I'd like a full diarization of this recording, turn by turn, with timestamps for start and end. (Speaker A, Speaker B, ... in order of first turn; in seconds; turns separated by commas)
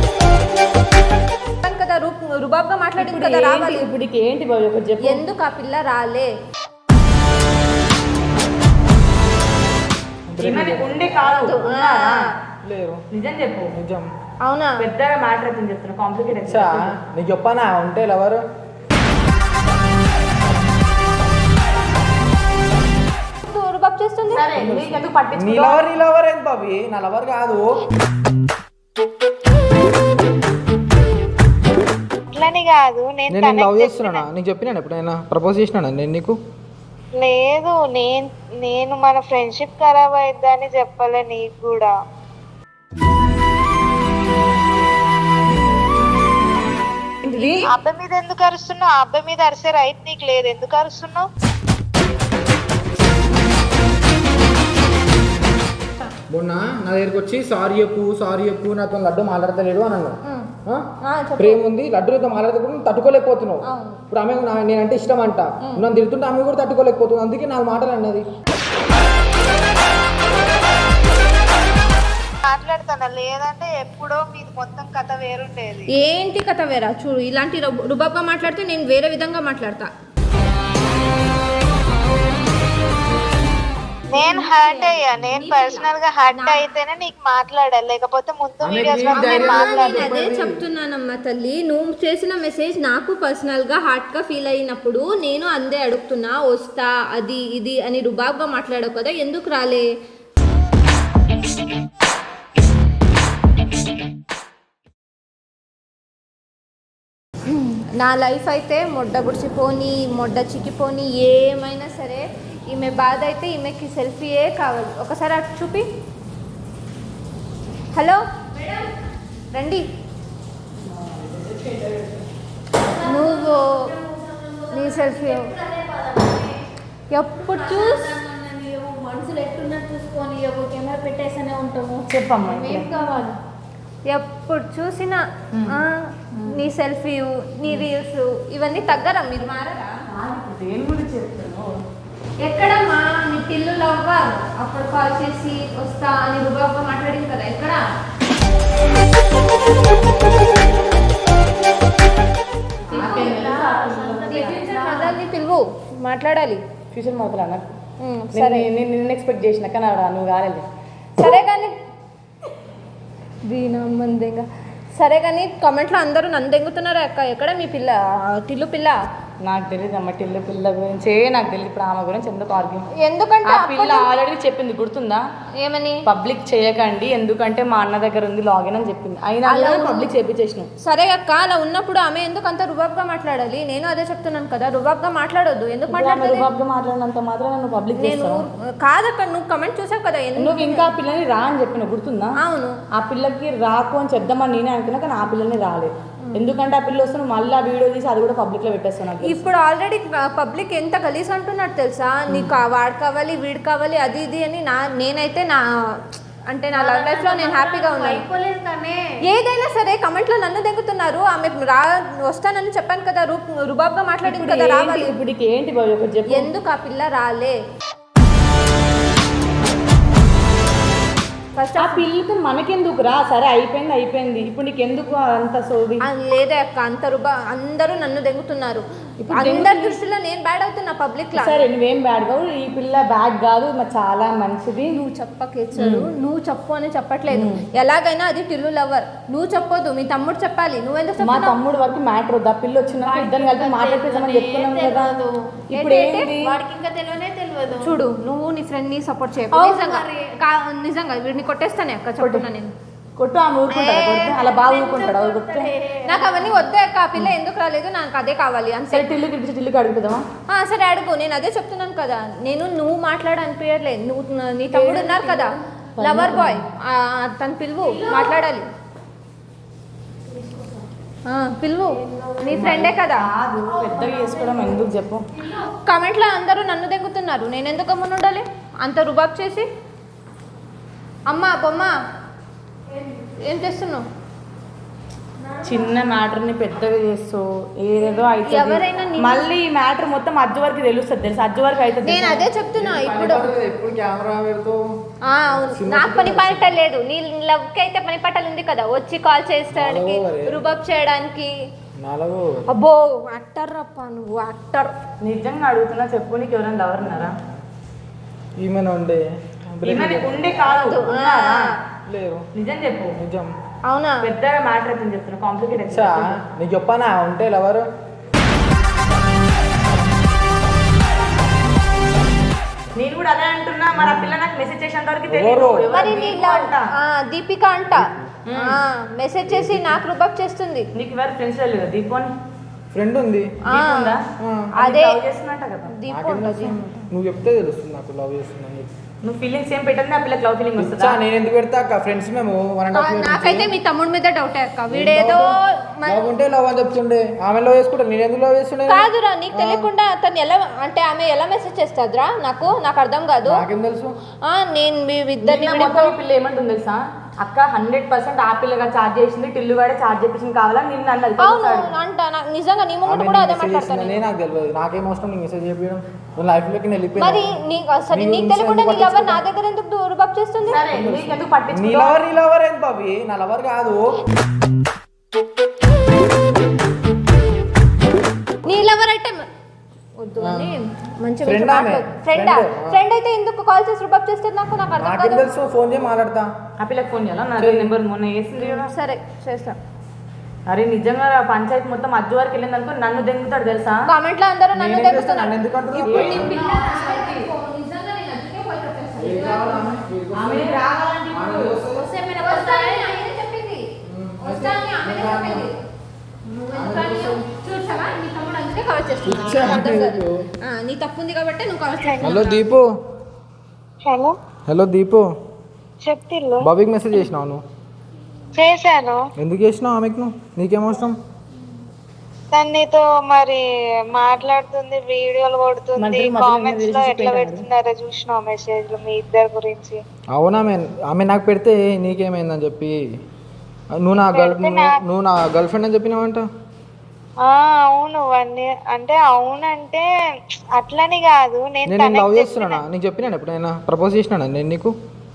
Speaker A: 1.6-3.9, Speaker B: 3.0-5.2, Speaker A: 5.0-6.3, Speaker C: 10.3-11.7, Speaker B: 10.4-12.3, Speaker A: 11.2-12.3, Speaker C: 12.6-13.0, Speaker B: 13.1-13.7, Speaker C: 13.7-14.1, Speaker A: 14.4-14.8, Speaker B: 14.8-16.9, Speaker C: 16.4-18.4, Speaker A: 23.4-24.4, Speaker B: 24.3-25.9, Speaker C: 24.6-27.7, Speaker D: 32.3-34.2, Speaker C: 33.3-36.4, Speaker D: 37.2-41.9, Speaker B: 47.2-47.7, Speaker D: 47.7-51.3, Speaker C: 56.3-60.9, Speaker A: 61.0-61.6, Speaker C: 61.4-68.2, Speaker A: 63.7-64.0, Speaker D: 72.5-75.9, Speaker A: 76.0-79.9, Speaker D: 84.1-90.3, Speaker A: 84.2-86.6, Speaker C: 88.6-90.6, Speaker A: 89.2-99.9, Speaker A: 107.7-115.9, Speaker A: 117.9-118.2, Speaker E: 118.6-118.9, Speaker A: 119.5-119.8, Speaker B: 120.9-122.2, Speaker E: 122.9-126.7, Speaker A: 123.0-123.9, Speaker A: 124.7-125.5, Speaker A: 127.1-128.1, Speaker E: 127.4-133.4, Speaker B: 132.1-132.9, Speaker A: 134.1-139.9, Speaker B: 135.5-135.8, Speaker B: 140.1-141.8, Speaker A: 142.4-147.8, Speaker B: 152.9-154.7, Speaker E: 152.9-155.2, Speaker A: 153.0-153.6, Speaker A: 154.3-156.6, Speaker B: 156.9-157.7, Speaker A: 158.0-158.7, Speaker B: 158.3-160.7, Speaker A: 161.2-161.8, Speaker A: 163.5-169.0, Speaker B: 169.4-172.9, Speaker A: 172.9-174.2, Speaker B: 173.4-175.2, Speaker A: 175.6-176.0, Speaker B: 176.1-180.7, Speaker A: 179.5-180.1, Speaker A: 180.8-186.5, Speaker B: 185.9-188.4, Speaker A: 188.0-190.9, Speaker B: 190.4-192.4, Speaker A: 192.4-192.8, Speaker B: 192.9-199.5, Speaker A: 199.2-208.2, Speaker E: 206.7-209.2, Speaker A: 209.3-215.1, Speaker B: 214.2-216.5, Speaker A: 216.3-217.6, Speaker A: 221.6-222.1, Speaker B: 221.8-226.0, Speaker A: 226.0-231.6, Speaker B: 229.2-230.0, Speaker B: 231.3-234.9, Speaker A: 234.9-241.6, Speaker B: 235.8-236.1, Speaker B: 237.3-237.6, Speaker B: 241.2-245.2, Speaker E: 243.0-245.5, Speaker B: 245.7-246.6, Speaker A: 245.7-246.3, Speaker E: 246.3-248.0, Speaker A: 247.8-252.7, Speaker E: 249.5-250.4, Speaker B: 252.2-252.4, Speaker B: 253.2-255.7, Speaker A: 253.7-254.4, Speaker E: 253.9-256.7, Speaker A: 256.1-259.1, Speaker B: 258.9-260.2, Speaker A: 260.5-268.7, Speaker B: 264.7-266.6, Speaker B: 267.8-268.4, Speaker E: 270.3-270.8, Speaker A: 271.3-273.3, Speaker E: 272.1-272.3, Speaker B: 272.5-275.3, Speaker E: 273.7-274.9, Speaker A: 275.7-279.7, Speaker A: 281.3-281.9, Speaker A: 283.4-284.1, Speaker E: 285.4-286.1, Speaker B: 285.6-292.5, Speaker A: 288.4-289.5, Speaker A: 292.0-293.5, Speaker C: 292.7-294.8, Speaker A: 295.3-301.5, Speaker C: 295.6-296.8, Speaker C: 299.7-300.6, Speaker C: 302.0-302.7, Speaker A: 302.7-304.9, Speaker B: 305.2-307.4, Speaker C: 308.6-311.0, Speaker B: 309.9-311.7, Speaker A: 310.7-311.8, Speaker C: 312.1-312.5, Speaker B: 312.6-313.2, Speaker C: 313.2-313.5, Speaker A: 313.9-314.3, Speaker B: 314.2-316.4, Speaker C: 315.9-317.9, Speaker B: 322.9-326.9, Speaker C: 323.9-324.4, Speaker C: 325.3-326.0, Speaker A: 325.9-330.9, Speaker C: 328.0-328.3, Speaker B: 328.5-328.8, Speaker C: 329.5-330.0, Speaker B: 330.9-332.3, Speaker C: 332.9-333.6, Speaker A: 333.6-334.1, Speaker B: 333.7-334.2, Speaker C: 334.4-334.7, Speaker A: 334.8-335.2, Speaker B: 334.8-335.9, Speaker A: 335.9-337.1, Speaker C: 336.1-338.9, Speaker B: 339.2-341.2, Speaker C: 340.8-343.8, Speaker A: 342.9-346.3, Speaker C: 344.9-345.5, Speaker C: 346.1-349.9, Speaker A: 348.9-353.6, Speaker C: 353.4-354.1, Speaker A: 354.5-356.1, Speaker B: 355.4-361.9, Speaker A: 361.4-364.2, Speaker C: 363.1-367.5, Speaker A: 367.2-370.8, Speaker C: 368.1-369.4, Speaker B: 370.7-372.2, Speaker C: 370.9-374.1, Speaker A: 378.6-379.4, Speaker A: 380.2-385.5, Speaker C: 380.4-380.8, Speaker C: 381.4-383.0, Speaker C: 385.0-386.5, Speaker B: 386.8-388.9, Speaker C: 387.6-387.9, Speaker A: 388.5-389.8, Speaker B: 390.7-394.0, Speaker A: 394.1-400.0, Speaker C: 394.7-396.5, Speaker B: 396.1-397.5, Speaker C: 399.2-400.8, Speaker B: 400.4-401.8, Speaker C: 401.3-402.1, Speaker A: 402.1-403.9, Speaker E: 402.2-403.1, Speaker C: 404.1-405.7, Speaker A: 404.4-405.8, Speaker A: 406.5-412.6, Speaker C: 406.7-407.4, Speaker C: 409.3-410.5, Speaker C: 412.2-412.9, Speaker D: 414.1-414.4, Speaker C: 414.7-415.3, Speaker D: 416.0-416.7, Speaker C: 416.6-417.6, Speaker D: 418.6-419.2, Speaker C: 419.4-421.2, Speaker D: 422.5-430.0, Speaker B: 426.0-427.7, Speaker C: 430.3-433.0, Speaker C: 433.9-436.5, Speaker D: 434.3-435.0, Speaker D: 437.4-440.1, Speaker D: 440.8-442.8, Speaker C: 441.9-444.9